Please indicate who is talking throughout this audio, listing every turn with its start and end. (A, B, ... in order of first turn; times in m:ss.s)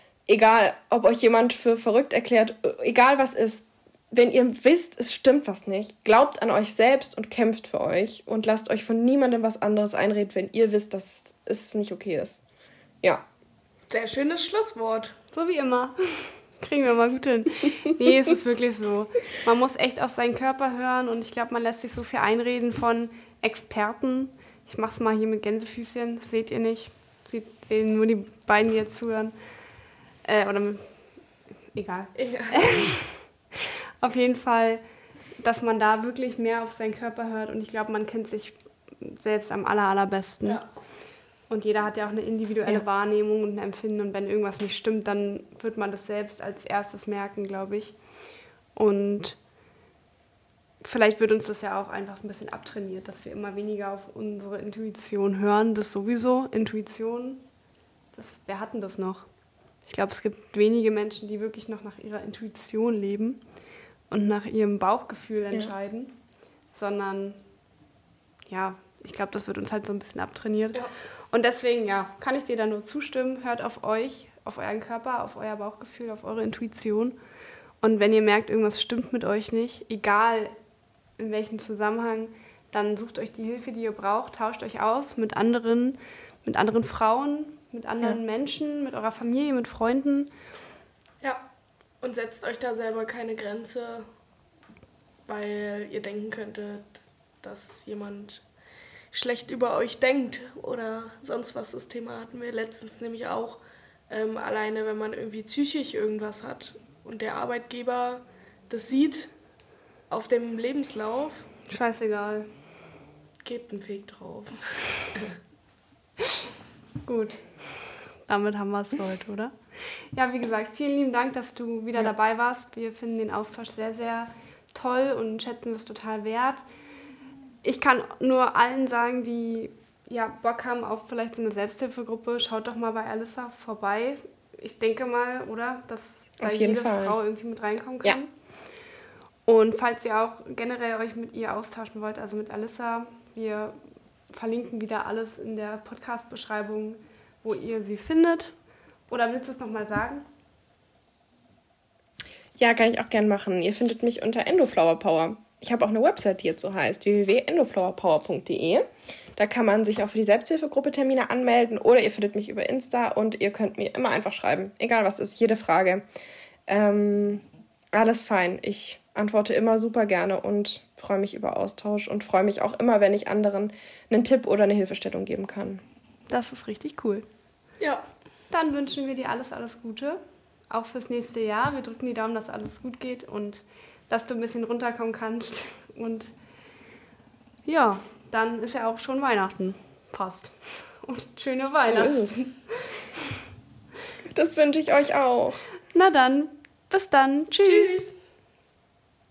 0:00.3-0:12.4 A
0:13.9-0:15.2 B
0:15.3-0:29.3 C
0:30.2-0:30.9 C
0:31.7-0:33.2 C
0:32.2-0:32.9 B
0:34.0-0:34.8 C
0:35.4-0:40.6 C
0:41.5-0:48.0 C
0:48.8-0:49.4 C
0:50.8-0:57.4 C
0:58.1-0:59.3 C
0:59.9-1:03.4 C
1:04.1-1:06.2 C
1:06.7-1:07.4 C
1:08.5-1:10.8 C
1:11.3-1:17.2 C
1:17.8-1:20.5 C
1:21.2-1:30.3 C
1:32.0-1:34.1 B
1:35.3-1:38.4 B
1:39.1-1:49.3 B
1:50.1-1:51.5 B
1:51.7-1:52.5 C
1:53.4-1:55.4 B
1:57.0-1:59.5 C
2:00.1-2:06.6 C
2:07.6-2:18.3 C
2:16.4-2:17.2 A
2:19.5-2:23.8 C
2:24.3-2:28.5 C
2:29.1-2:30.2 C
2:32.6-2:46.0 A
2:46.7-2:55.8 A
2:56.3-2:57.2 C
2:57.8-2:58.1 B
2:58.5-3:06.3 C
3:07.7-3:12.9 C
3:11.9-3:12.4 A
3:14.3-3:15.6 A
3:15.9-3:18.1 C
3:17.6-3:18.2 B